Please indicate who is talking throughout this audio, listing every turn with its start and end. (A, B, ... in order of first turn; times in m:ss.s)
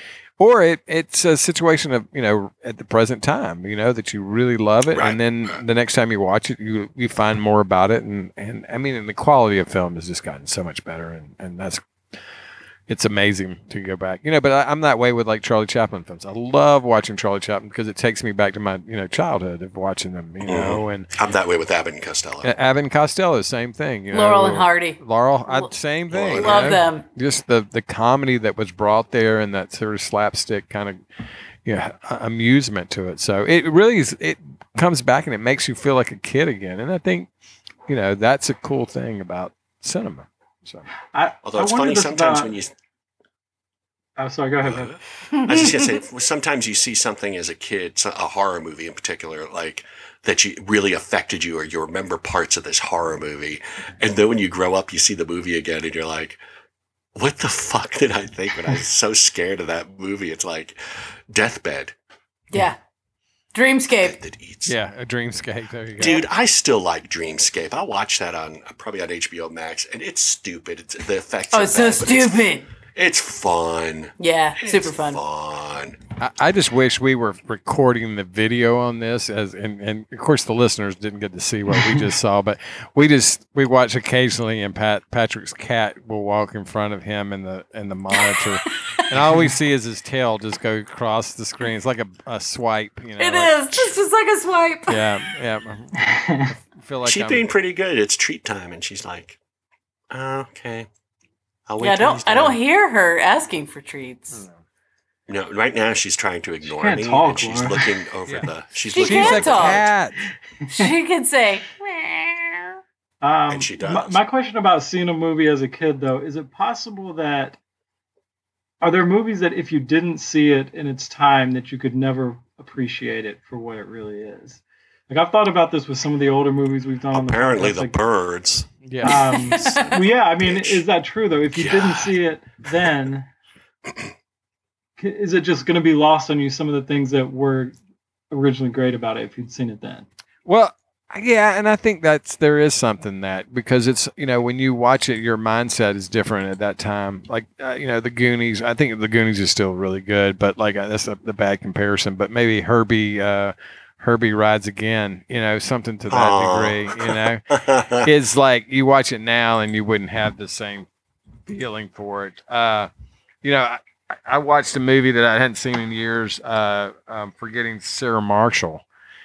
0:00.4-0:11.8 A
0:04.9-0:05.6 B
0:12.9-0:21.1 A
0:20.4-0:22.5 B
0:22.4-0:31.0 A
0:24.1-0:25.7 C
0:26.1-0:26.8 B
0:26.3-0:27.0 C
0:31.6-0:37.3 A
0:37.9-0:40.9 A
0:41.1-0:42.6 D
0:41.4-0:42.7 B
0:44.2-0:45.0 D
0:44.6-0:56.4 B
0:45.3-0:45.8 C
0:57.2-1:02.0 B
1:02.5-1:02.8 C
1:03.5-1:04.2 C
1:04.0-1:04.8 B
1:04.7-1:06.2 A
1:06.0-1:16.0 B
1:11.5-1:12.7 C
1:14.2-1:15.2 C
1:16.2-1:33.9 A
1:33.2-1:35.1 C
1:34.9-1:37.5 A
1:36.0-1:36.5 D
1:37.0-1:39.4 B
1:40.1-1:40.9 B
1:41.7-1:42.6 B
1:41.8-1:44.4 C
1:44.3-1:44.6 A
1:45.3-1:49.9 B
1:46.7-1:47.9 D
1:48.3-1:50.3 A
1:48.9-1:49.9 C
1:50.7-1:52.8 C
1:53.2-1:57.6 D
1:53.5-1:54.2 B
1:58.8-2:08.0 D
2:07.1-2:08.7 B
2:08.8-2:09.3 A
2:09.0-2:13.3 D
2:09.1-2:09.9 C
2:09.4-2:10.8 B
2:11.5-2:12.2 B
2:15.0-2:17.7 D
2:18.3-2:20.1 D
2:20.5-2:40.9 A
2:36.1-2:38.1 B
2:41.5-2:42.9 A
2:43.4-2:48.8 A